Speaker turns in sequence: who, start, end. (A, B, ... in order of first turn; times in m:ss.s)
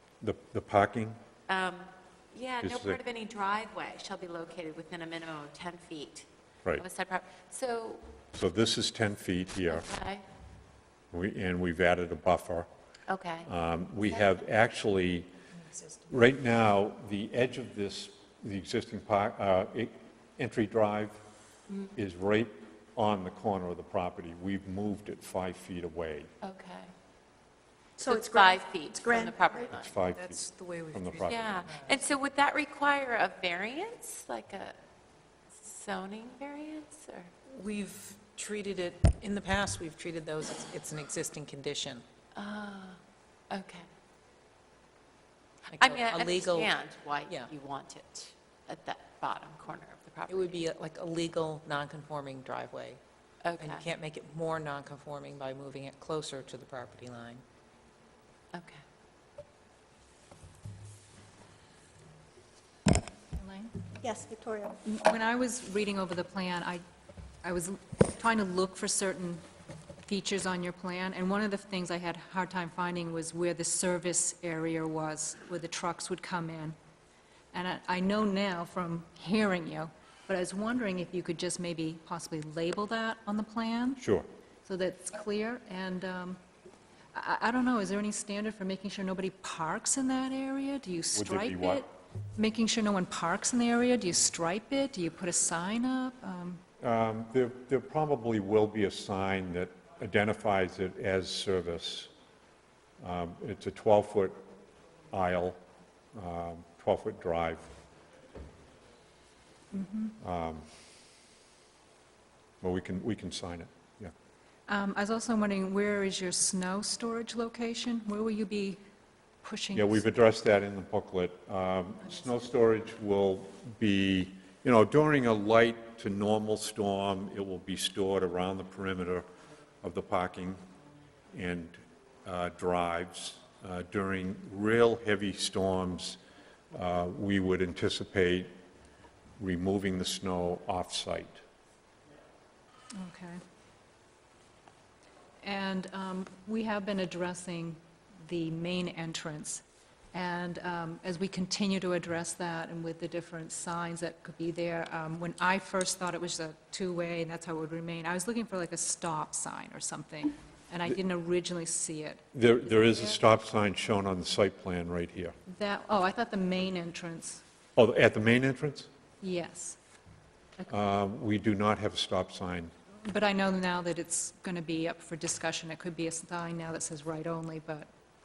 0:00.2-0:01.2 A
0:01.5-0:06.2 B
0:02.6-0:03.0 A
0:06.8-0:08.0 B
0:08.3-0:09.9 A
0:09.8-0:10.2 B
0:11.1-0:12.7 A
0:13.1-0:13.5 B
0:13.4-0:15.3 A
0:15.6-0:16.1 C
0:16.1-0:21.2 A
0:21.9-0:26.3 A
0:26.4-0:26.9 B
0:28.0-0:29.7 D
0:28.0-0:29.7 E
0:28.5-0:29.7 B
0:29.7-0:31.6 A
0:30.1-0:32.1 C
0:31.3-0:34.8 B
0:31.5-0:31.8 E
0:35.6-0:37.3 B
0:37.5-0:42.0 C
0:42.3-0:43.0 B
0:43.5-0:43.8 B
0:45.7-0:47.5 C
0:45.8-0:50.4 B
0:46.2-0:46.5 E
0:50.3-0:53.0 C
0:53.4-0:53.8 B
0:53.6-0:57.4 C
0:58.5-0:58.8 B
1:03.3-1:03.7 E
1:04.0-1:04.8 D
1:04.8-1:06.8 E
1:07.4-1:09.4 E
1:10.1-1:16.8 E
1:17.5-1:24.0 E
1:24.0-1:24.2 A
1:24.6-1:26.4 E
1:27.1-1:36.6 E
1:31.1-1:31.8 A
1:36.8-1:42.1 A
1:43.0-1:44.4 A
1:45.1-1:45.6 A
1:46.1-1:47.7 A
1:49.7-1:50.2 E
1:50.2-1:50.6 A
1:52.6-1:54.1 A
1:54.7-1:58.8 E
1:59.4-2:00.0 E
1:59.7-2:09.2 A
2:09.8-2:10.6 A
2:11.3-2:16.2 A
2:16.7-2:18.5 A
2:19.4-2:21.4 A
2:22.9-2:23.4 E
2:25.4-2:29.6 E
2:30.1-2:42.2 E
2:42.3-2:45.3 A
2:45.5-2:47.4 E
2:47.8-2:48.9 A
2:49.2-2:49.8 E
2:50.7-2:52.7 A
2:53.0-2:57.9 E